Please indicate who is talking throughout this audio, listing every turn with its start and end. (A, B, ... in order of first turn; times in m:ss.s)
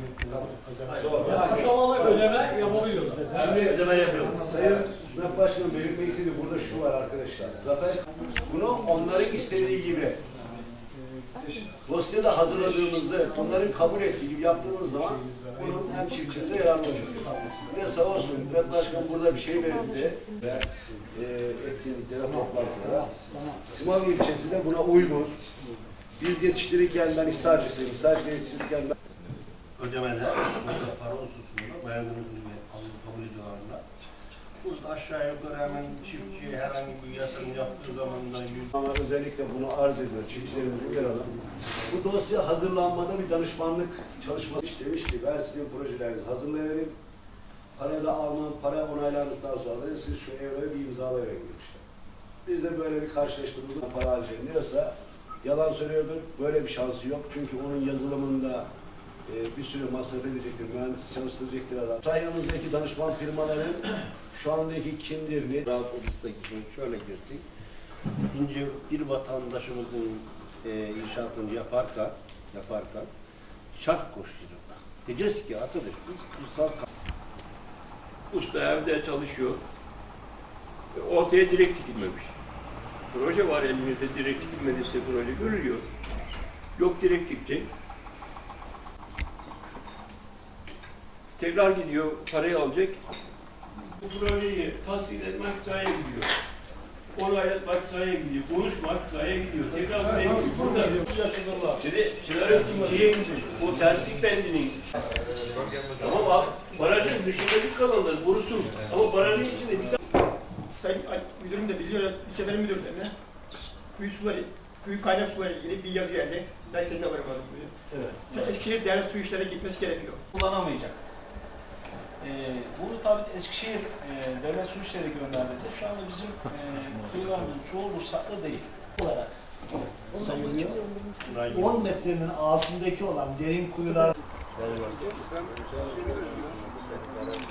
0:01.0-0:10.2 A
0:11.8-0:23.1 A
0:23.6-0:25.4 A
0:26.2-0:28.9 A
0:29.8-0:33.8 B
0:34.6-0:38.7 B
0:38.7-0:47.0 A
0:47.8-0:51.8 A
0:52.4-0:58.7 A
0:59.2-1:05.7 A
1:05.6-1:07.4 B
1:08.3-1:13.1 B
1:13.7-1:16.9 B
1:18.3-1:19.6 C
1:20.9-1:22.3 C
1:23.1-1:25.8 C
1:26.8-1:27.7 C
1:31.4-1:33.0 C
1:34.0-1:36.3 C
1:37.1-1:44.8 C
1:46.0-1:50.0 C
1:50.7-1:53.1 D
1:53.9-1:57.7 D
1:57.9-1:58.4 E
1:58.3-2:00.2 D
2:00.3-2:01.0 E
2:02.2-2:09.3 E
2:10.1-2:10.8 F
2:11.3-2:12.0 B
2:11.5-2:14.1 F
2:14.8-2:15.1 B
2:15.8-2:16.5 B